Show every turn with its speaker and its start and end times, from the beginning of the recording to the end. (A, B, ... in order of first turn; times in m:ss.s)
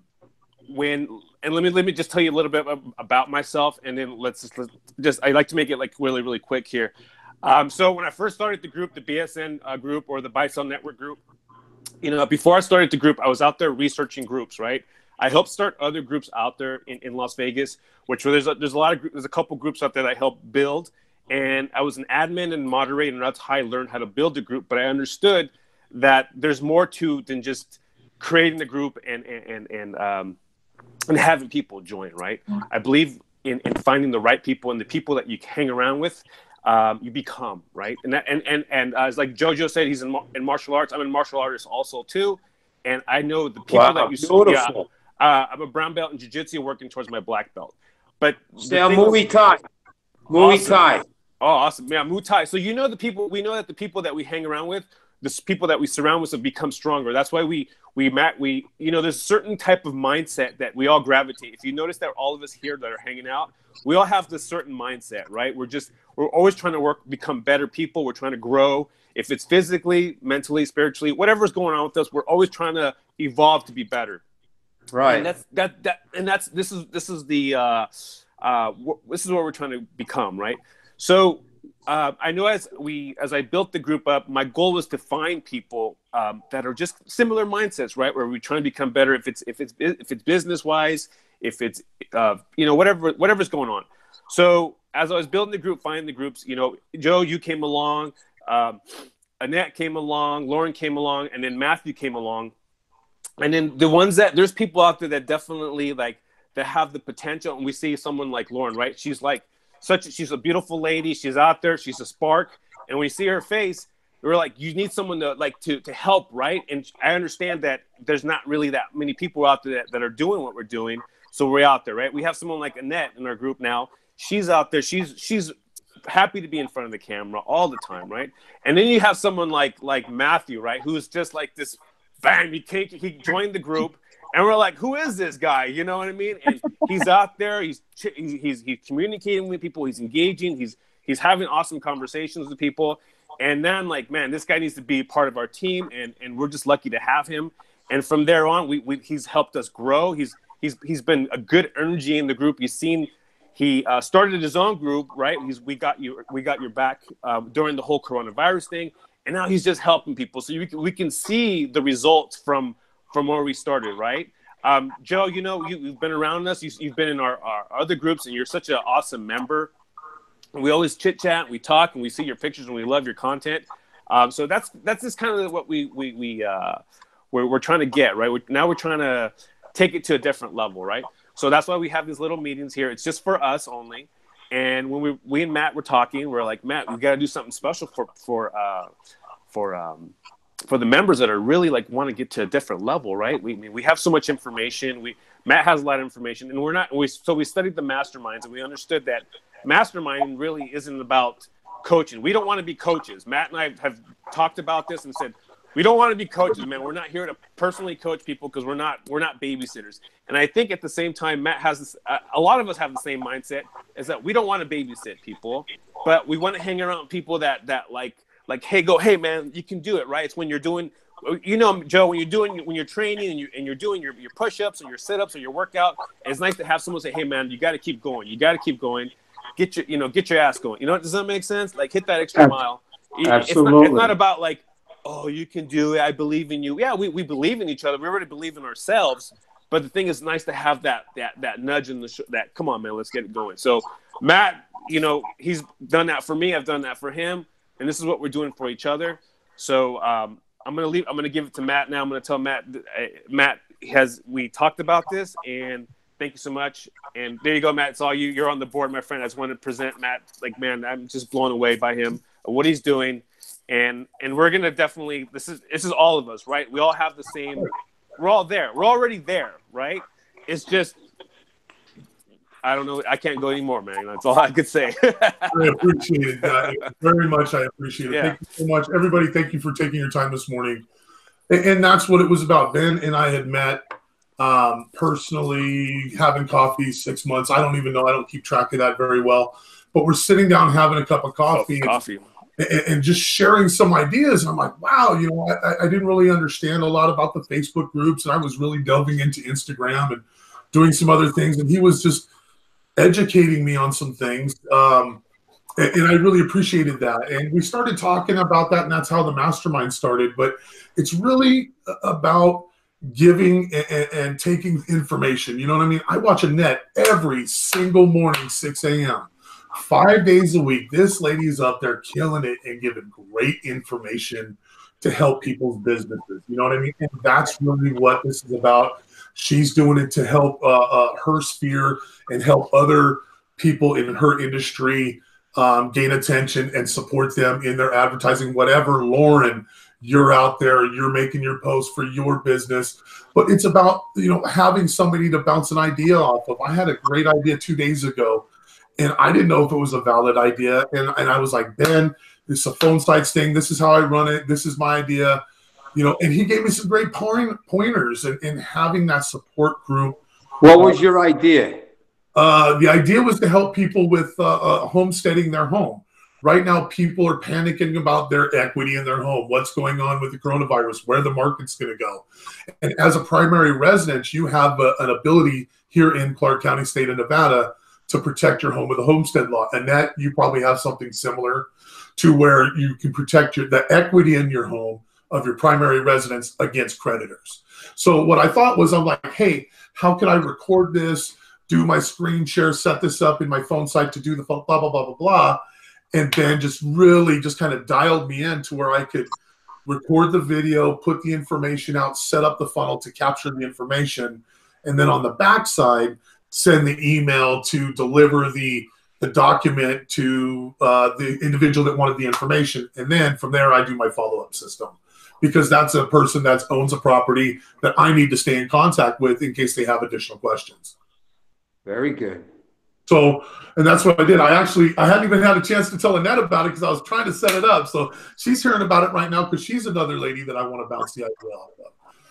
0:00.7-0:06.9 A
0:07.4-0:11.2 A
0:12.0-0:30.4 A
0:31.1-0:49.4 A
0:43.7-0:44.9 B
0:48.6-0:49.6 B
0:50.3-0:51.0 B
0:50.3-0:50.9 A
0:51.4-1:14.2 A
1:14.9-1:15.3 B
1:15.1-1:17.9 A
1:18.4-1:38.8 A
1:39.4-1:42.5 A
1:43.4-2:05.5 A
2:06.1-2:49.7 A
2:50.5-2:56.8 A
2:57.3-3:08.9 A
3:09.5-3:10.1 A
3:10.7-4:31.0 A
3:53.3-3:54.1 B
4:32.6-4:35.8 A
4:35.5-4:40.8 C
4:36.4-4:36.7 A
4:38.1-4:38.4 A
4:41.5-4:43.8 C
4:44.4-4:52.0 C
4:51.5-4:52.2 A
4:52.6-5:02.3 C
5:03.0-5:05.2 C
5:05.8-5:48.5 C
5:49.0-5:55.4 C
5:56.0-6:00.2 C
6:00.6-6:01.8 B
6:00.7-6:01.0 C
6:02.4-6:12.2 C
6:12.8-6:35.6 C
6:36.1-6:39.3 C
6:39.8-7:00.9 C
7:01.9-7:02.4 B
7:03.1-7:11.9 C